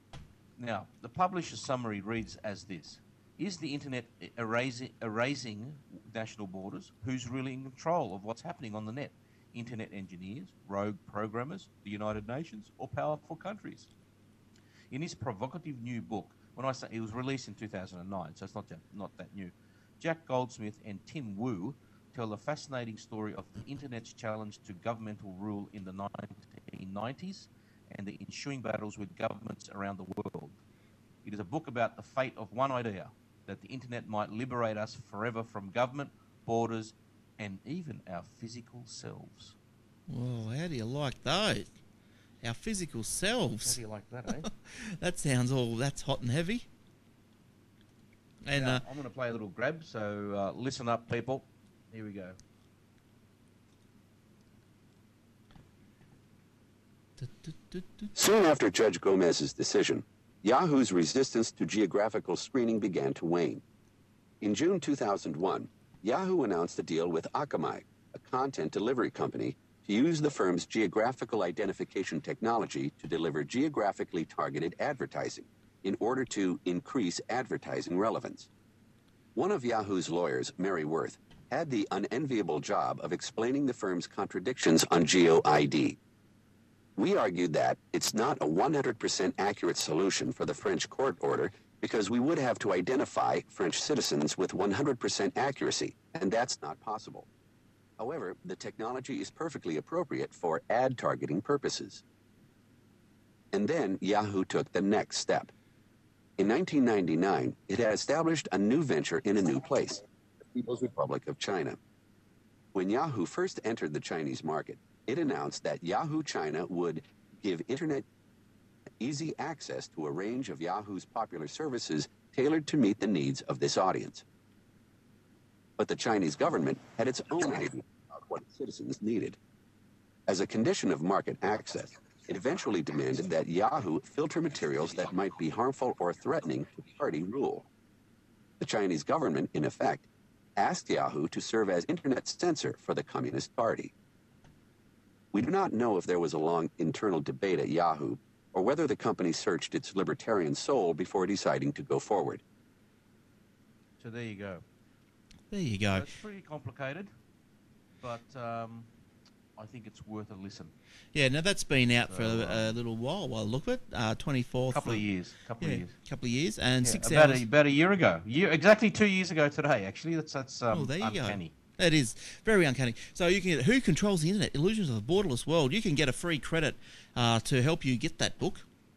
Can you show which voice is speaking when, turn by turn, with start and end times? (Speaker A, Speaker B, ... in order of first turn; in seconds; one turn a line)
Speaker A: 0.6-13.9
Speaker A: 14.9-30.6
Speaker A: 31.2-39.6
Speaker B: 40.1-41.7
Speaker B: 42.4-43.8
Speaker A: 43.6-44.5
Speaker B: 44.4-46.7
Speaker B: 48.4-48.8
Speaker A: 48.5-52.4
Speaker B: 57.2-58.1
Speaker C: 58.2-63.6
Speaker C: 64.4-78.5
Speaker C: 79.3-86.0
Speaker C: 87.0-97.3
Speaker C: 98.0-102.0
Speaker C: 103.5-105.5
Speaker C: 106.4-111.8
Speaker C: 112.7-118.1
Speaker C: 119.0-124.2
Speaker C: 125.8-129.4
Speaker C: 130.3-137.7
Speaker C: 138.6-143.9
Speaker C: 145.3-152.4
Speaker A: 154.0-154.6
Speaker B: 155.5-156.1
Speaker A: 155.9-157.1
Speaker A: 158.0-158.9
Speaker A: 159.6-160.7
Speaker B: 161.1-165.0
Speaker A: 162.1-162.7
Speaker A: 164.7-165.9
Speaker B: 165.6-167.4
Speaker A: 166.8-171.5
Speaker B: 170.7-178.7